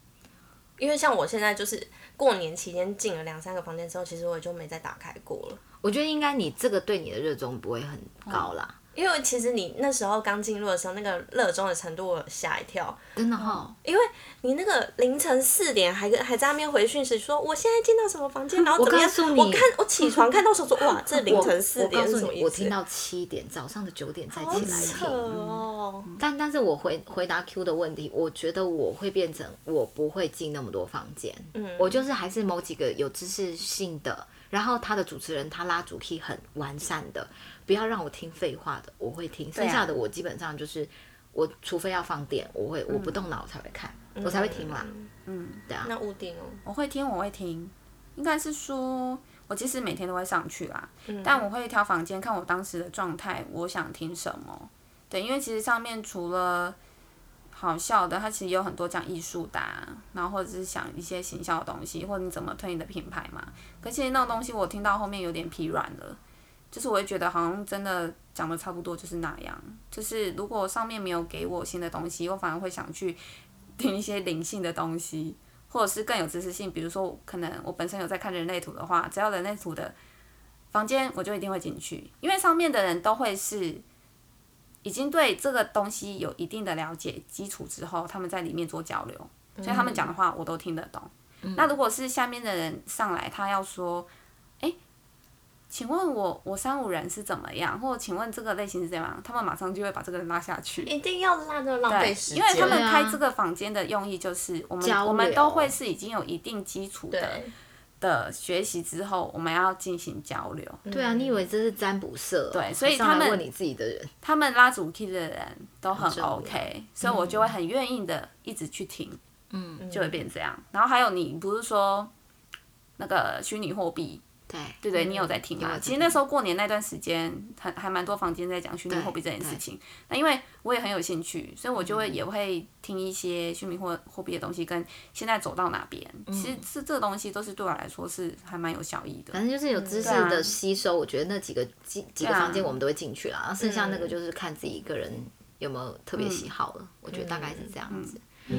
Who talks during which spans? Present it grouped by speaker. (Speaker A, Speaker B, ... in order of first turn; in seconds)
Speaker A: 0.8-5.6, 8.9-13.0, 13.8-22.8, 24.3-26.1, 31.5-32.0, 44.2-45.1, 45.8-46.6, 51.1-51.5, 89.6-90.0, 100.8-102.8, 107.1-107.5, 110.8-111.5, 119.8-120.2, 139.7-140.1, 143.6-144.2, 147.1-147.7
Speaker B: 5.8-8.8, 13.2-13.8, 18.8-19.7, 21.2-25.2, 26.2-44.9, 91.4-91.7, 102.5-103.2, 104.8-105.8, 110.9-114.1, 116.0-117.5, 119.5-119.9, 124.5-126.2, 128.9-129.6, 131.8-132.2, 136.3-136.6, 139.3-148.2
Speaker C: 24.5-26.2, 39.5-39.9, 42.9-43.2, 45.3-45.7, 46.6-56.8, 57.5-66.2, 66.7-73.2, 73.8-80.0, 80.7-83.8, 84.8-94.1, 95.7-100.9, 101.9-107.4, 108.0-110.8, 112.5-113.4, 114.2-119.2, 119.9-122.1, 123.0-124.2, 124.8-139.4, 140.0-140.5, 142.2-142.8, 146.2-146.5, 147.9-148.2